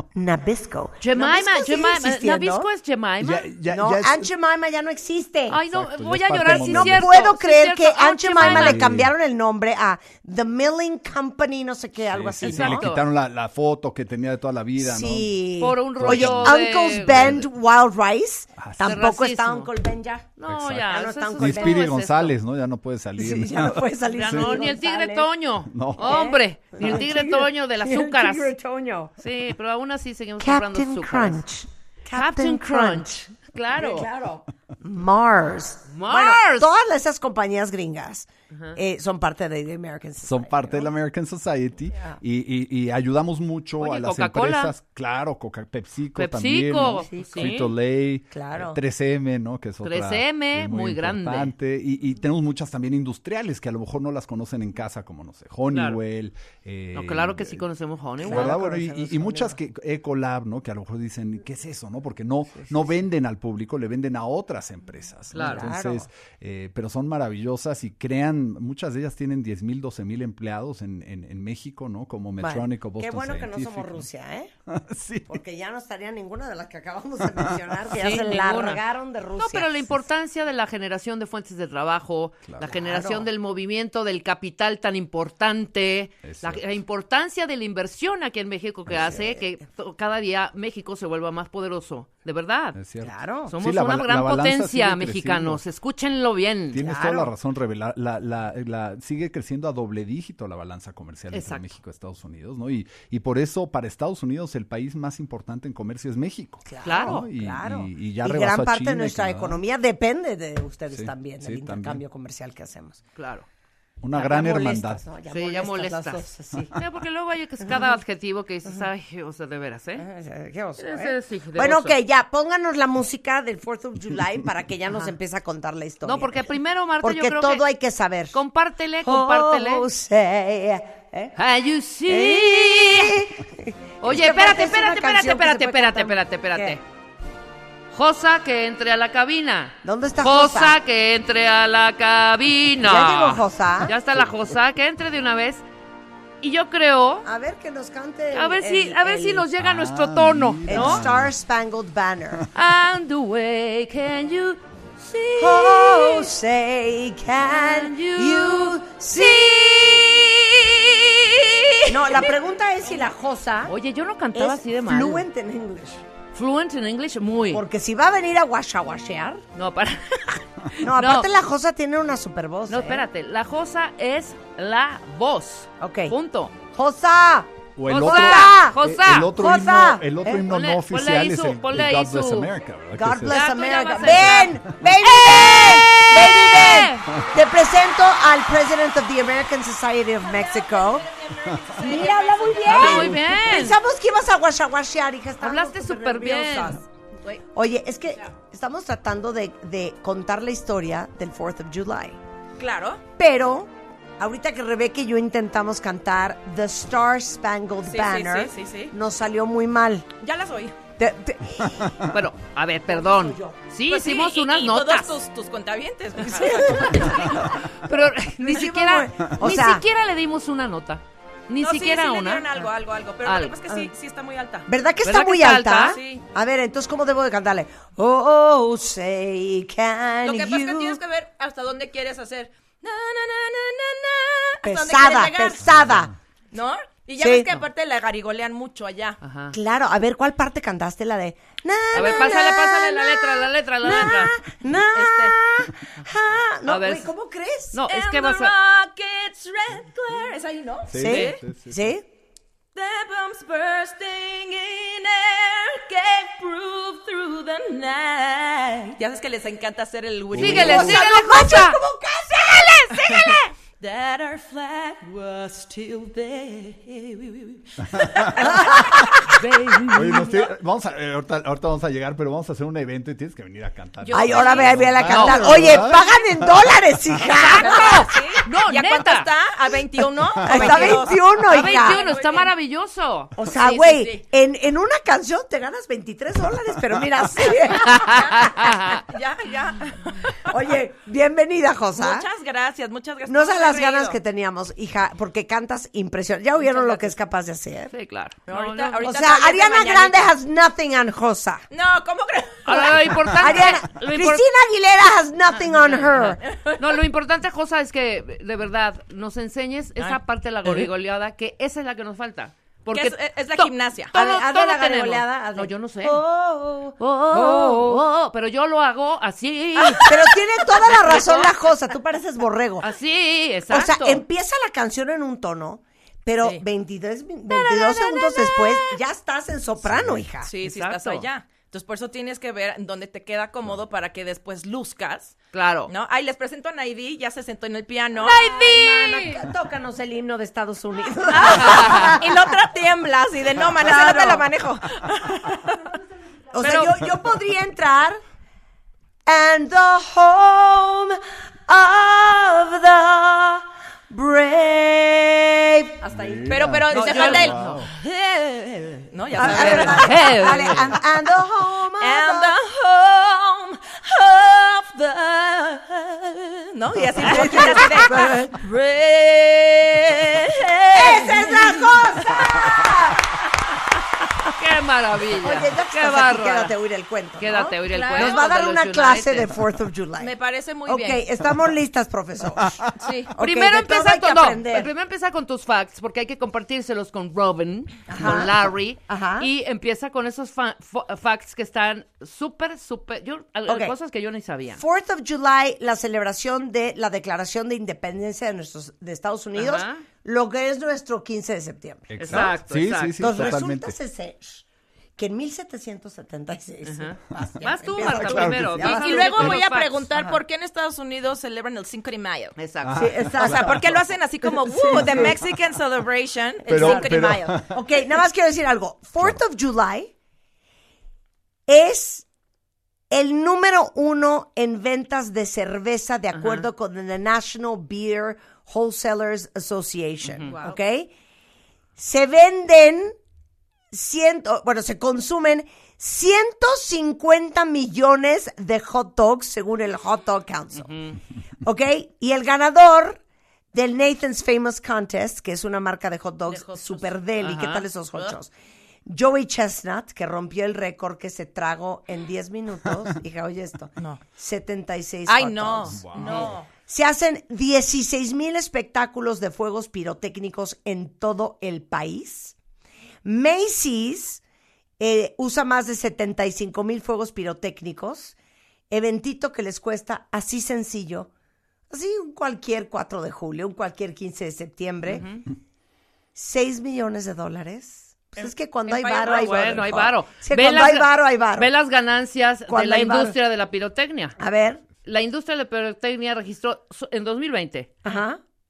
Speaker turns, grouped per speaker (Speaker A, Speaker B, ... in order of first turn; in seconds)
Speaker A: 0.1-2.7, 3.7-5.6, 6.4-12.9, 14.8-20.3, 20.8-21.8, 23.2-25.3, 26.0-29.1, 30.4-40.9, 41.9-42.2, 47.0-47.6, 48.3-48.8, 58.2-58.9, 65.4-66.1, 72.4-74.5, 75.3-79.9, 82.6-83.3, 89.0-89.4, 93.0-93.5, 96.8-97.3, 106.7-113.0, 114.1-116.7, 120.0-126.4, 127.0-128.4, 129.0-131.3, 132.1-136.8, 139.8-140.7, 142.8-143.9, 147.2-149.4, 150.7-152.5, 155.4-159.9, 161.8-163.7, 164.3-166.0, 167.5-169.4, 170.8-173.0, 175.8-176.2, 176.7-178.8, 179.3-180.4, 182.9-191.1, 191.8-196.8, 197.5-202.2, 203.2-210.1, 211.0-212.1, 212.9-213.6, 216.2-217.6, 218.4-219.8, 224.7-231.0, 234.6-236.1, 237.2-237.4, 239.5-247.8, 250.9-252.0, 260.4-263.4, 268.3-269.3, 274.1-278.2, 280.4-282.0, 283.4-288.7, 290.4-292.2, 293.3-297.9, 299.0-301.6, 303.3-306.4, 314.1-318.0, 320.0-322.9, 323.7-330.5, 338.2-342.4, 343.8-344.5, 346.5-348.2, 349.2-356.0, 359.3-362.5, 367.2-368.5, 370.9-373.3, 375.4-380.3, 380.9-384.9, 388.1-389.5, 393.7-393.9, 394.8-402.5, 403.2-404.6, 405.2-409.5, 412.9-413.8, 414.8-415.4, 416.7-420.1, 421.7-422.2, 423.1-431.1, 432.0-433.1, 433.9-440.9, 441.6-443.2, 443.7-448.5, 449.1-462.5, 463.2-464.4, 465.0-468.3, 468.9-471.3, 471.9-475.3, 476.3-481.7, 482.7-483.4, 484.4-484.8, 488.0-488.4
Speaker B: 1.0-3.5, 5.5-8.9, 12.4-13.0, 15.6-17.5, 18.8-19.7, 20.4-22.3, 24.1-28.5, 29.2-31.4, 32.1-34.1, 35.9-36.7, 38.5-38.8, 43.8-44.7, 46.1-47.7, 49.8-51.5, 55.7-56.0, 56.9-59.5, 65.3-65.7, 77.9-78.8, 79.4-92.8, 93.5-96.8, 101.3-101.7, 106.8-107.3, 113.2-113.5, 115.3-120.0, 120.8-122.0, 126.0-127.7, 128.3-129.8, 131.3-133.2, 134.0-136.8, 137.9-145.6, 146.4-147.3, 148.3-151.1, 152.5-156.3, 157.4-158.8, 163.7-165.2, 166.3-167.6, 169.5-171.3, 172.7-176.6, 177.8-179.3, 180.4-182.5, 183.2-187.2, 192.6-193.8, 195.4-196.8, 212.0-215.2, 217.0-222.5, 223.2-223.6, 225.0-226.0, 239.2-239.6, 241.9-244.3, 246.7-247.1, 247.7-248.5, 260.4-261.8, 269.3-270.3, 274.0-275.9, 277.2-279.3, 280.5-283.8, 287.9-289.0, 297.9-299.1, 302.6-304.4, 305.6-316.2, 317.0-320.1, 322.8-324.2, 330.6-331.3, 335.5-335.9, 338.2-339.4, 341.5-342.1, 356.9-357.8, 359.4-360.9, 367.3-368.0, 374.4-376.7, 377.4-379.6, 383.4-394.8, 399.5-400.0, 402.2-403.5, 406.8-410.0, 412.6-413.1, 426.3-426.7, 430.2-430.6, 440.8-441.2, 447.4-447.9, 475.1-475.4, 479.3-484.4, 485.0-487.9
Speaker C: 3.2-4.3, 5.7-7.1, 8.3-9.1, 12.1-15.4, 16.0-17.5, 18.6-19.0, 20.5-24.5, 25.7-26.2, 40.2-57.6, 58.2-74.0, 74.7-75.4, 86.2-86.6, 92.7-95.6, 96.7-109.6, 110.9-112.0, 114.0-115.0, 149.6-151.3, 177.8-183.4, 191.4-191.8, 192.8-193.3, 250.9-251.9, 260.3-261.0, 267.9-268.3, 269.9-276.7, 329.8-330.3, 356.1-357.9, 402.1-403.9, 408.0-409.5, 412.8-413.9, 414.9-415.4, 416.7-417.8, 455.9-456.6
Speaker D: 159.6-161.8, 190.2-193.2, 202.6-203.0, 207.8-208.9, 210.2-210.8, 213.9-217.6, 221.6-224.7, 225.8-226.2, 230.2-235.7, 236.5-239.2, 242.0-242.3, 244.9-245.4, 247.9-251.4, 252.7-261.1, 262.9-270.2, 277.4-282.5, 283.6-284.2, 287.4-290.6, 291.9-294.2, 296.6-297.1, 298.5-300.3, 301.7-303.2, 305.9-306.9, 310.0-310.9, 312.9-314.1, 319.8-321.6, 327.5-329.0, 330.4-335.4, 335.9-338.5, 341.3-345.9, 346.6-346.9, 356.0-361.0, 362.0-372.9, 377.8-378.5, 380.2-381.2, 382.9-383.3, 408.8-412.6, 413.4-417.7, 430.4-430.8, 446.5-447.1, 455.2-456.7, 478.4-480.0